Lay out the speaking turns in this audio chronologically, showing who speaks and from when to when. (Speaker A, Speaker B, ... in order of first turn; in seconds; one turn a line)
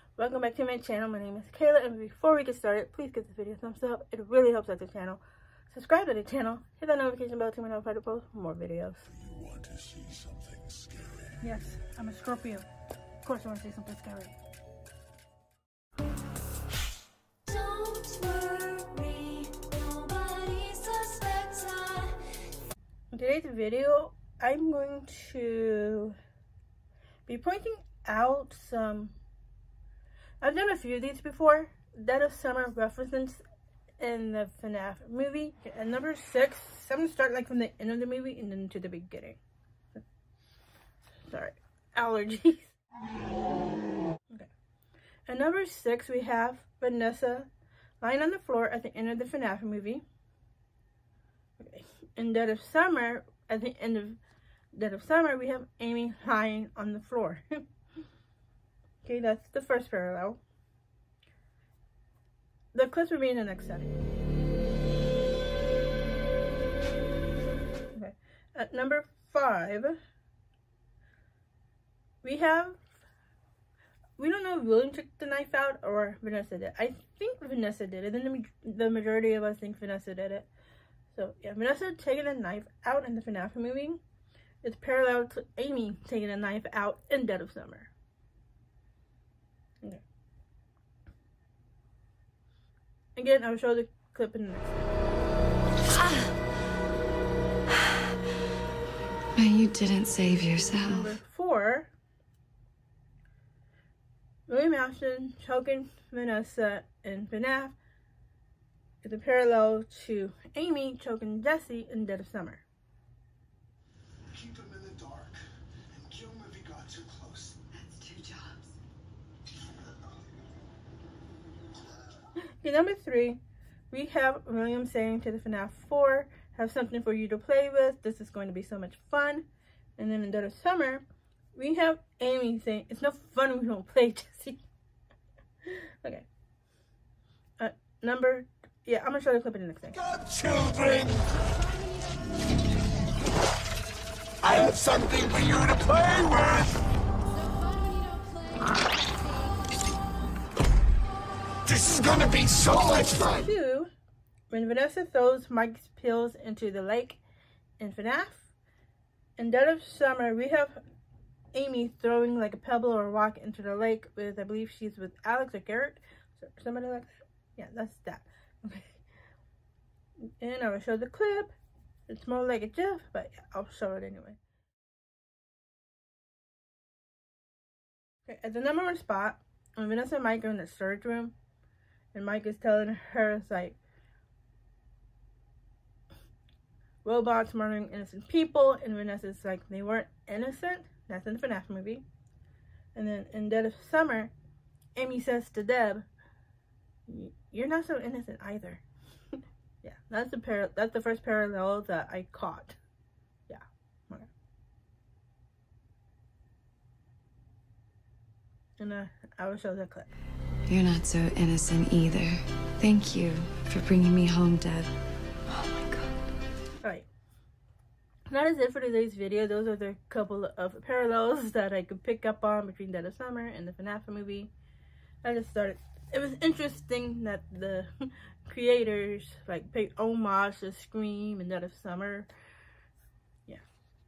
Speaker A: 0.2-9.0
Speaker B: 9.3-11.4
Speaker A: 11.4-12.7
Speaker A: 13.2-14.3
Speaker C: 17.5-22.3
Speaker A: 23.1-26.2
Speaker A: 27.3-29.1
Speaker A: 30.4-33.4
Speaker A: 34.0-39.4
Speaker A: 41.3-42.8
Speaker A: 45.3-47.5
Speaker A: 48.0-50.0
Speaker A: 51.6-54.2
Speaker A: 54.7-57.6
Speaker A: 59.0-60.4
Speaker A: 62.7-64.0
Speaker A: 67.9-70.0
Speaker A: 72.2-72.8
Speaker A: 74.2-80.5
Speaker A: 81.1-84.0
Speaker A: 84.6-87.9
Speaker A: 93.2-94.9
Speaker D: 99.4-101.1
Speaker A: 100.6-101.9
Speaker A: 104.5-107.8
Speaker A: 109.0-112.6
Speaker B: 114.3-115.4
Speaker B: 115.9-117.6
Speaker D: 117.8-118.6
Speaker A: 122.4-123.4
Speaker A: 123.9-129.5
Speaker A: 130.0-131.0
Speaker A: 131.6-134.6
Speaker A: 135.7-136.3
Speaker A: 137.6-140.2
Speaker B: 140.2-141.2
Speaker B: 144.4-146.7
Speaker C: 147.4-148.8
Speaker B: 151.7-153.1
Speaker A: 152.9-153.9
Speaker A: 154.5-157.2
Speaker A: 157.8-158.5
Speaker A: 159.4-160.8
Speaker A: 161.5-169.0
Speaker A: 170.4-171.5
Speaker A: 172.1-174.4
Speaker A: 178.3-181.3
Speaker A: 182.1-183.8
Speaker A: 187.0-192.0
Speaker A: 192.9-194.3
Speaker A: 194.9-196.1
Speaker A: 197.1-198.8
Speaker A: 199.8-202.8
Speaker A: 203.5-204.3
Speaker A: 208.8-210.1
Speaker D: 210.7-214.9
Speaker D: 215.5-216.2
Speaker A: 216.8-217.1
Speaker A: 218.3-224.5
Speaker A: 225.2-232.3